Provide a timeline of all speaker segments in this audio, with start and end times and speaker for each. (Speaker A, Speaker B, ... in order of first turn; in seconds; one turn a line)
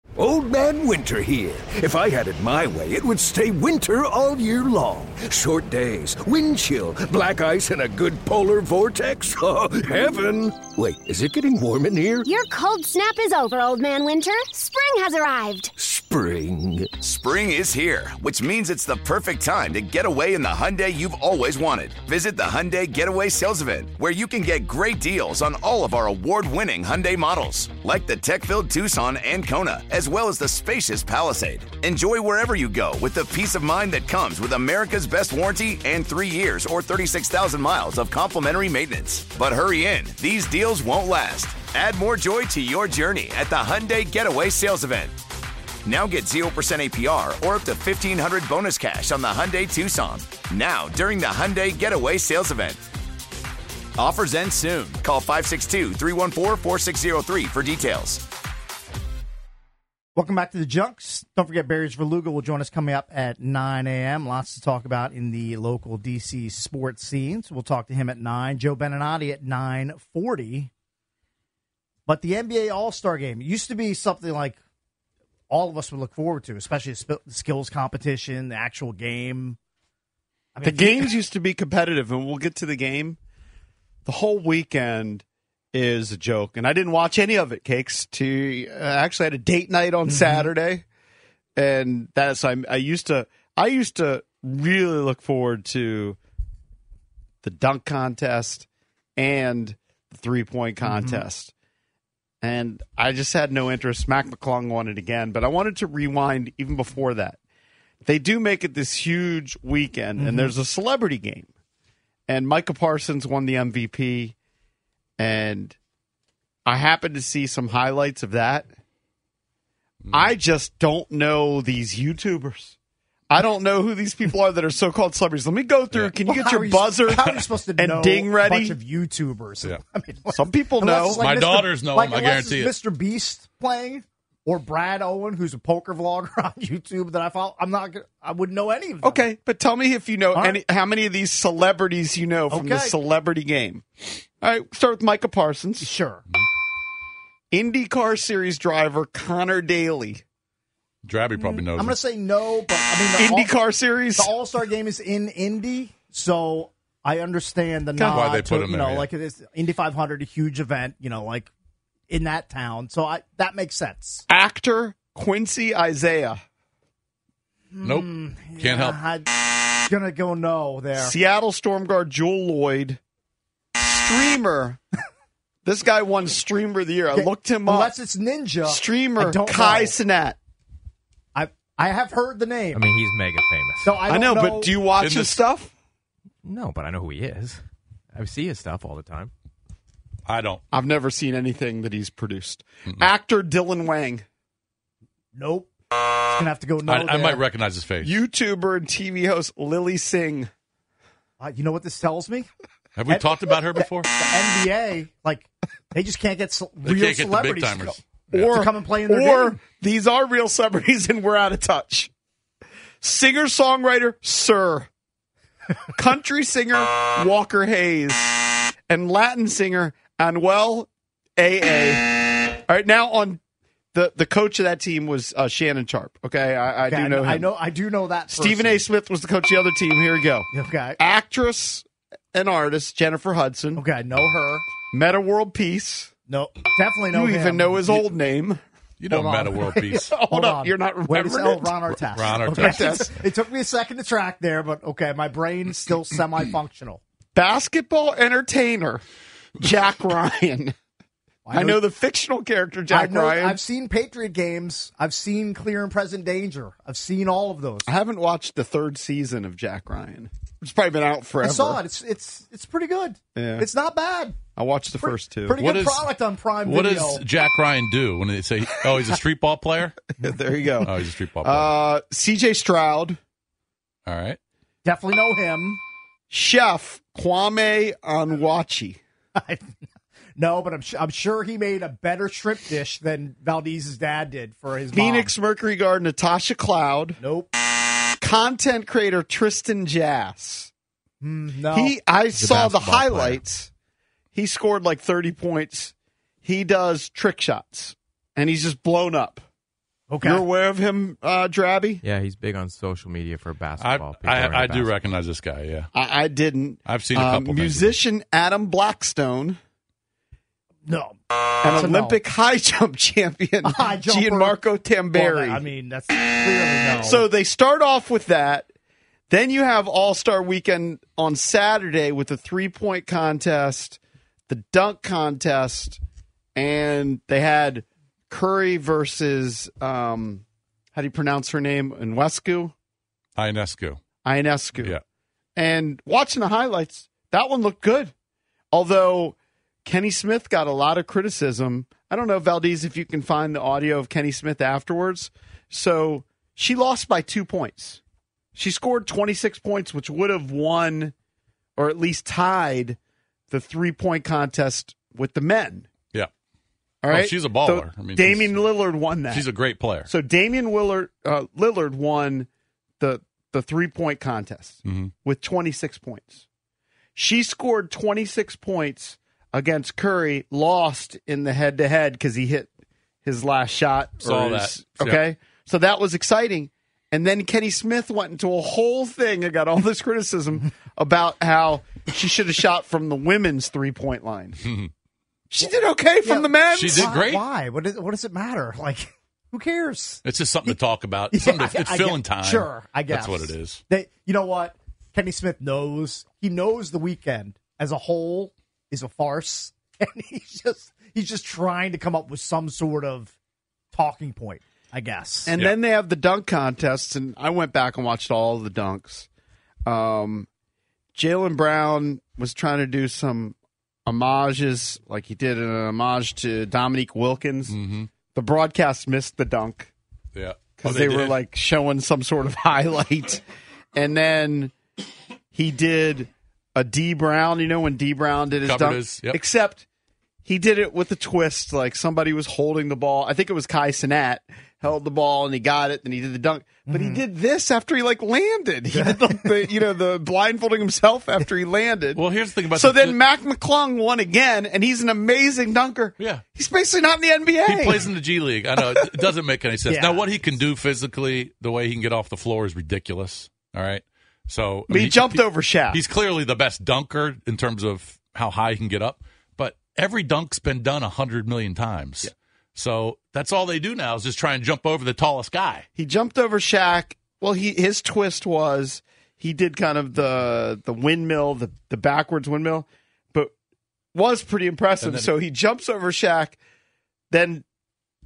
Speaker A: 0.2-12.3
Speaker B: 12.2-15.7
Speaker A: 15.8-17.0
Speaker C: 17.0-45.1
Speaker C: 45.9-52.8
Speaker C: 54.0-58.2
Speaker D: 60.2-70.7
Speaker D: 72.1-74.6
Speaker D: 75.5-79.6
Speaker D: 80.5-81.2
Speaker E: 80.6-83.2
Speaker E: 84.1-90.8
Speaker D: 90.1-90.5
Speaker E: 91.6-96.2
Speaker E: 97.4-101.5
Speaker D: 100.8-101.2
Speaker E: 102.4-107.4
Speaker E: 108.0-111.5
Speaker D: 110.2-110.5
Speaker E: 112.3-114.3
Speaker E: 115.2-115.8
Speaker E: 116.7-118.7
Speaker F: 120.0-120.3
Speaker E: 120.1-122.8
Speaker E: 123.3-128.8
Speaker F: 125.9-126.2
Speaker D: 126.2-139.3
Speaker F: 127.2-127.5
Speaker E: 130.3-131.3
Speaker F: 131.2-132.7
Speaker E: 139.0-143.8
Speaker D: 140.3-140.6
Speaker D: 142.5-143.0
Speaker E: 144.4-145.9
Speaker D: 145.8-146.2
Speaker E: 147.5-150.2
Speaker F: 151.0-152.0
Speaker D: 151.4-153.6
Speaker E: 153.2-154.3
Speaker D: 154.2-161.5
Speaker E: 158.0-158.2
Speaker F: 158.0-159.1
Speaker D: 162.1-164.2
Speaker E: 164.3-166.4
Speaker D: 167.8-169.3
Speaker F: 167.8-169.0
Speaker D: 169.8-171.1
Speaker E: 171.0-173.0
Speaker E: 173.8-174.8
Speaker E: 175.7-177.9
Speaker D: 177.1-180.0
Speaker E: 178.6-180.4
Speaker D: 181.3-182.9
Speaker G: 182.7-184.1
Speaker D: 183.8-184.8
Speaker E: 184.1-185.7
Speaker F: 185.0-185.4
Speaker G: 186.4-187.6
Speaker G: 188.1-189.3
Speaker F: 190.3-190.6
Speaker E: 190.7-194.2
Speaker D: 195.3-195.7
Speaker D: 196.3-197.4
Speaker F: 196.8-198.1
Speaker E: 198.0-200.5
Speaker D: 201.4-202.5
Speaker F: 203.0-204.1
Speaker D: 203.1-208.0
Speaker F: 206.8-208.7
Speaker E: 208.3-212.1
Speaker D: 208.5-209.6
Speaker E: 213.0-214.9
Speaker E: 216.0-223.4
Speaker E: 223.9-227.5
Speaker D: 226.8-228.9
Speaker E: 228.3-233.8
Speaker D: 230.5-231.0
Speaker D: 233.8-234.7
Speaker E: 234.8-236.1
Speaker D: 236.3-238.0
Speaker E: 237.1-238.6
Speaker F: 239.0-240.2
Speaker D: 239.1-247.0
Speaker E: 240.2-243.2
Speaker F: 242.2-243.1
Speaker E: 247.3-249.0
Speaker E: 249.6-250.7
Speaker D: 251.5-251.8
Speaker E: 251.5-253.6
Speaker D: 252.9-257.9
Speaker E: 257.9-261.8
Speaker D: 261.4-264.5
Speaker E: 263.4-263.7
Speaker E: 264.5-265.6
Speaker D: 265.0-267.3
Speaker F: 265.6-266.1
Speaker F: 266.6-269.9
Speaker E: 270.2-273.2
Speaker F: 270.8-271.7
Speaker F: 274.1-274.4
Speaker D: 274.9-275.8
Speaker E: 276.3-279.0
Speaker D: 279.4-279.6
Speaker D: 280.4-285.3
Speaker E: 284.9-287.2
Speaker D: 287.2-287.5
Speaker E: 288.2-290.7
Speaker D: 291.2-291.9
Speaker E: 291.7-293.7
Speaker G: 292.3-293.4
Speaker E: 294.3-295.9
Speaker E: 296.4-299.4
Speaker D: 300.1-300.5
Speaker E: 300.2-302.0
Speaker G: 302.0-304.9
Speaker F: 303.8-305.9
Speaker E: 305.9-309.6
Speaker F: 306.9-308.0
Speaker D: 310.9-312.2
Speaker E: 311.6-315.7
Speaker D: 313.6-314.6
Speaker D: 315.1-317.2
Speaker E: 317.0-318.7
Speaker E: 319.3-326.0
Speaker E: 326.6-332.7
Speaker F: 333.4-334.0
Speaker E: 334.2-334.9
Speaker E: 335.6-338.1
Speaker E: 338.7-348.0
Speaker E: 348.6-351.1
Speaker E: 351.8-353.0
Speaker E: 353.5-355.9
Speaker E: 357.0-359.5
Speaker F: 357.1-358.7
Speaker F: 359.3-360.1
Speaker E: 360.1-362.5
Speaker E: 363.0-366.4
Speaker F: 364.9-365.1
Speaker E: 367.2-372.7
Speaker E: 373.2-384.6
Speaker F: 374.2-375.2
Speaker F: 384.6-384.9
Speaker E: 385.5-387.2
Speaker D: 386.2-390.8
Speaker F: 386.7-387.4
Speaker F: 390.2-393.8
Speaker D: 391.3-403.3
Speaker D: 403.9-405.5
Speaker E: 405.5-409.3
Speaker E: 409.9-410.5
Speaker E: 411.1-419.9
Speaker F: 417.7-418.1
Speaker F: 420.4-421.4
Speaker E: 420.8-423.4
Speaker E: 423.9-424.7
Speaker E: 425.5-429.9
Speaker F: 428.6-429.4
Speaker E: 430.4-448.1
Speaker D: 436.9-437.2
Speaker D: 438.9-439.5
Speaker F: 442.1-443.2
Speaker F: 446.2-446.4
Speaker F: 447.6-465.9
Speaker E: 448.8-449.2
Speaker D: 449.9-450.3
Speaker E: 454.9-456.0
Speaker E: 466.0-473.5
Speaker E: 474.1-476.6
Speaker F: 475.0-475.3
Speaker E: 477.3-477.6